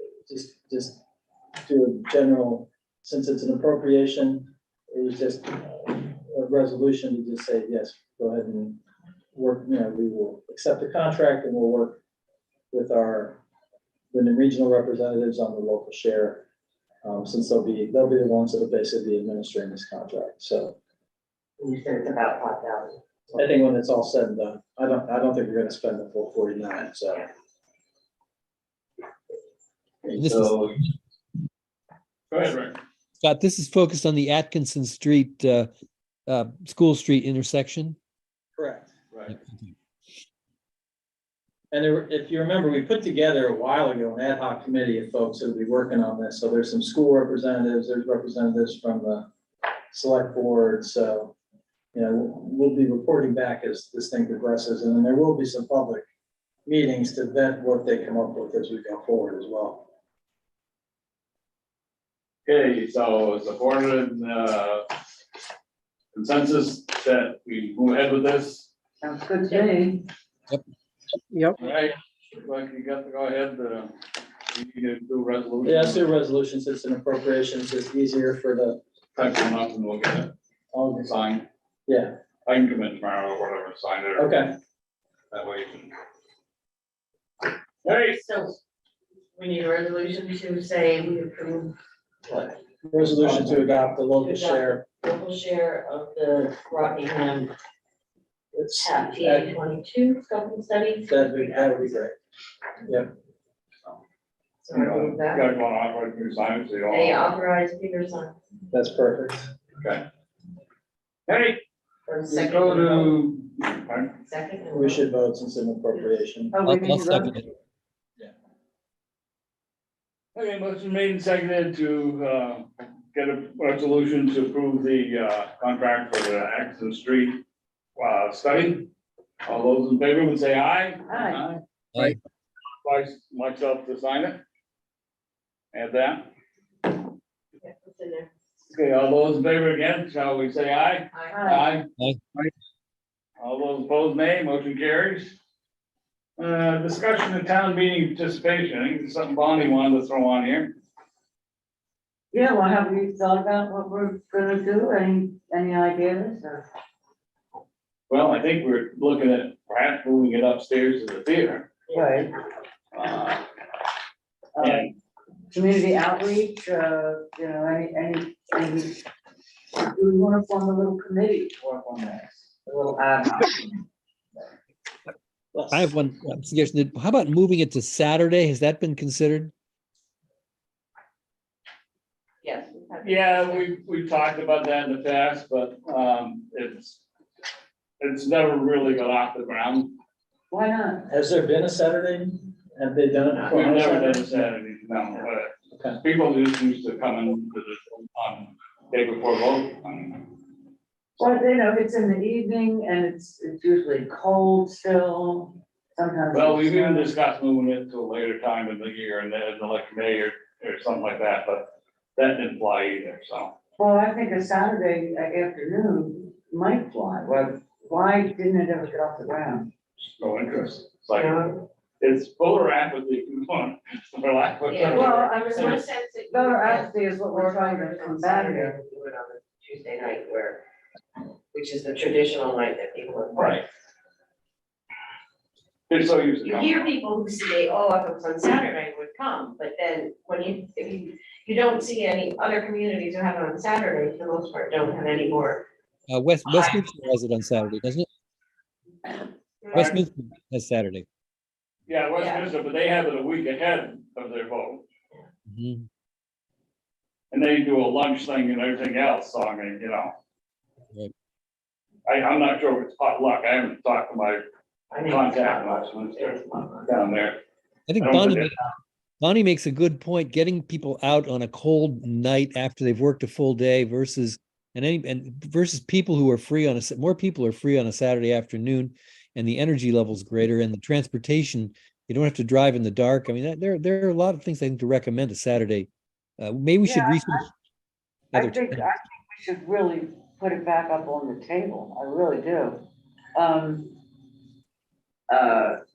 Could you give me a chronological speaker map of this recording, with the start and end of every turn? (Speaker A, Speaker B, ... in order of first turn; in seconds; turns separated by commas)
Speaker A: 0.2-1.0, Speaker A: 1.6-8.8, Speaker A: 9.3-12.0, Speaker A: 12.7-13.4, Speaker A: 14.1-16.4, Speaker A: 17.0-20.8, Speaker B: 21.6-23.0, Speaker A: 23.3-27.3, Speaker C: 30.0-30.9, Speaker D: 30.1-30.5, Speaker C: 32.3-32.8, Speaker D: 33.2-35.7, Speaker D: 36.3-38.0, Speaker A: 38.5-38.9, Speaker D: 39.3-39.7, Speaker A: 41.7-49.3, Speaker A: 49.9-51.3, Speaker A: 51.9-56.0, Speaker A: 56.6-59.9, Speaker C: 62.5-64.9, Speaker C: 66.1-68.7, Speaker E: 69.0-70.0, Speaker C: 71.6-73.9, Speaker C: 74.5-76.1, Speaker A: 75.6-78.8, Speaker C: 79.1-80.3, Speaker A: 80.7-81.1, Speaker C: 81.0-81.4, Speaker A: 81.9-82.1, Speaker C: 82.5-84.4, Speaker A: 84.2-84.5, Speaker C: 85.3-85.9, Speaker C: 87.8-88.2, Speaker B: 87.9-88.5, Speaker B: 89.3-91.7, Speaker B: 92.2-92.5, Speaker A: 92.8-94.8, Speaker B: 94.2-97.5, Speaker A: 98.5-99.5, Speaker B: 98.8-101.9, Speaker A: 101.1-102.2, Speaker A: 102.8-103.1, Speaker B: 104.6-105.5, Speaker C: 104.7-107.3, Speaker B: 106.9-108.3, Speaker A: 108.7-109.5, Speaker C: 109.8-110.0, Speaker C: 111.3-111.6, Speaker B: 112.0-113.1, Speaker C: 112.3-114.1, Speaker B: 114.2-115.0, Speaker A: 114.7-116.5, Speaker E: 116.5-117.4, Speaker D: 116.6-117.5, Speaker C: 120.3-127.4, Speaker C: 128.0-128.9, Speaker C: 129.4-131.6, Speaker E: 131.1-131.4, Speaker C: 132.8-134.4, Speaker C: 135.7-136.2, Speaker B: 137.6-138.3, Speaker C: 138.7-141.9, Speaker B: 141.1-141.4, Speaker E: 141.3-141.7, Speaker C: 143.4-145.3, Speaker C: 146.4-150.7, Speaker E: 152.3-156.6, Speaker C: 158.1-161.7, Speaker E: 161.9-162.3, Speaker C: 162.9-163.4, Speaker E: 164.5-164.9, Speaker C: 164.6-164.9, Speaker E: 165.5-169.0, Speaker E: 169.7-173.8, Speaker D: 175.7-179.5, Speaker B: 182.4-183.7, Speaker C: 183.0-187.0, Speaker C: 188.0-189.9, Speaker E: 190.5-191.1, Speaker A: 191.1-194.5, Speaker B: 193.3-193.7, Speaker C: 193.5-200.3, Speaker A: 195.7-196.0, Speaker E: 201.2-207.1, Speaker C: 206.3-213.5, Speaker E: 213.8-219.7, Speaker C: 220.2-221.4, Speaker B: 221.1-221.6, Speaker C: 222.0-225.8, Speaker B: 224.7-230.6, Speaker E: 224.9-228.7, Speaker B: 231.5-233.6, Speaker C: 233.3-233.6, Speaker C: 235.9-236.9, Speaker B: 236.4-245.7, Speaker D: 246.1-248.1, Speaker B: 249.6-250.0, Speaker D: 249.7-251.1, Speaker C: 251.9-254.8, Speaker B: 252.2-252.4, Speaker D: 255.5-255.9, Speaker C: 257.3-260.1, Speaker C: 262.1-264.4, Speaker B: 264.9-267.0, Speaker C: 265.0-267.4, Speaker D: 267.9-268.6, Speaker C: 268.0-268.5, Speaker D: 269.2-287.4, Speaker E: 286.8-287.5, Speaker D: 288.3-288.9, Speaker E: 288.3-293.9, Speaker E: 295.3-295.8